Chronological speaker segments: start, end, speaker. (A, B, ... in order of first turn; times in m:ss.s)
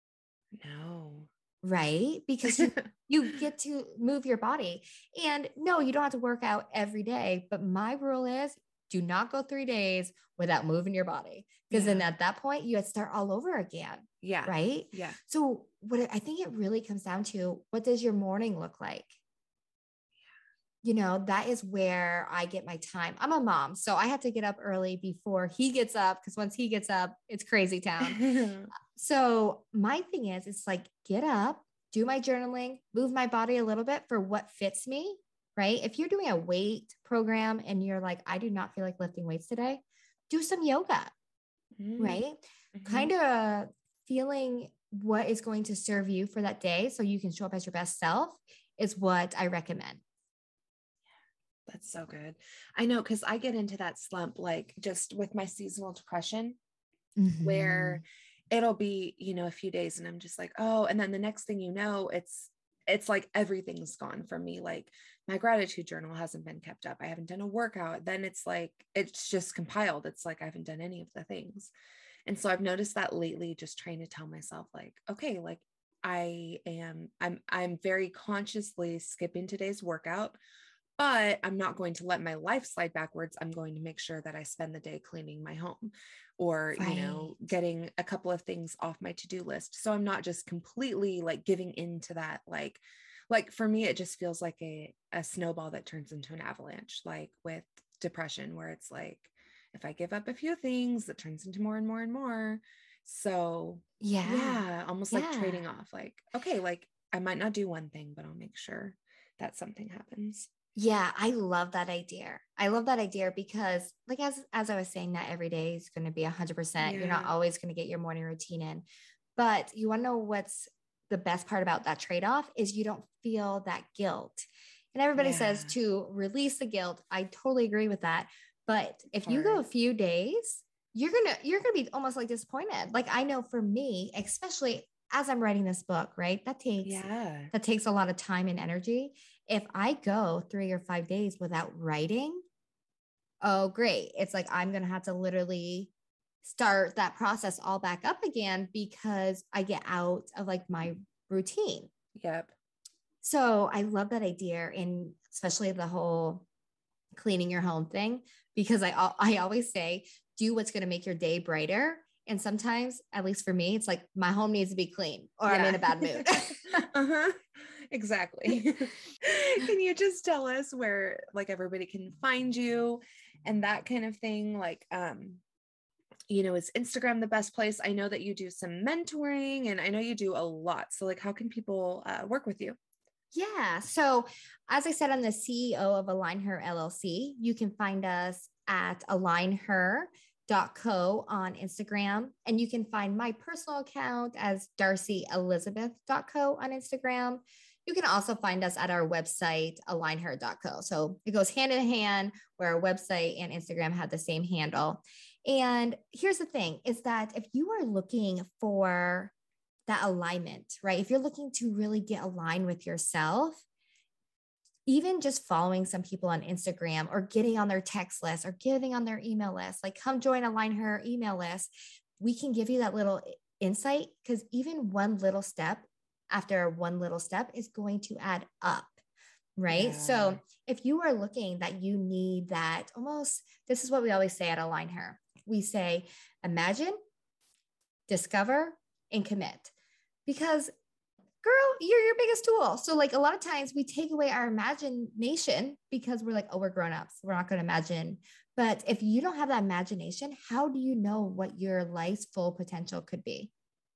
0:00.5-0:01.3 A
0:01.6-0:19.2 B
0:02.5-0:02.8 A
0:11.7-0:12.1 A
0:14.2-0:15.2 A
0:20.8-0:41.1 B
0:28.0-0:28.7 A
0:41.8-0:42.2 A
0:42.0-0:50.0 B
0:42.7-0:43.1 A
0:51.7-0:56.6 A
0:57.2-0:58.0 B
0:57.4-1:11.7 A
1:12.2-1:20.4 A
1:21.0-1:50.5 A
1:26.7-1:27.3 B
1:44.0-1:45.6 B
1:50.8-1:58.8 B
1:56.8-1:57.3 A
1:59.4-2:22.4 B
2:05.1-2:05.8 A
2:09.2-2:09.6 A
2:16.8-2:17.5 A
2:23.4-2:25.9 B
2:26.4-2:31.9 B
2:32.1-2:32.5 A
2:33.2-2:36.4 B
2:37.1-2:46.9 B
2:45.5-2:46.3 A
2:46.9-2:55.4 A
2:56.3-3:02.8 A
3:03.3-3:29.3 B
3:29.9-3:33.6 B
3:34.8-3:49.0 B
3:49.6-3:57.0 B
3:49.7-3:50.4 A
3:58.1-3:59.7 B
4:00.2-4:00.7 B
4:01.4-4:13.5 B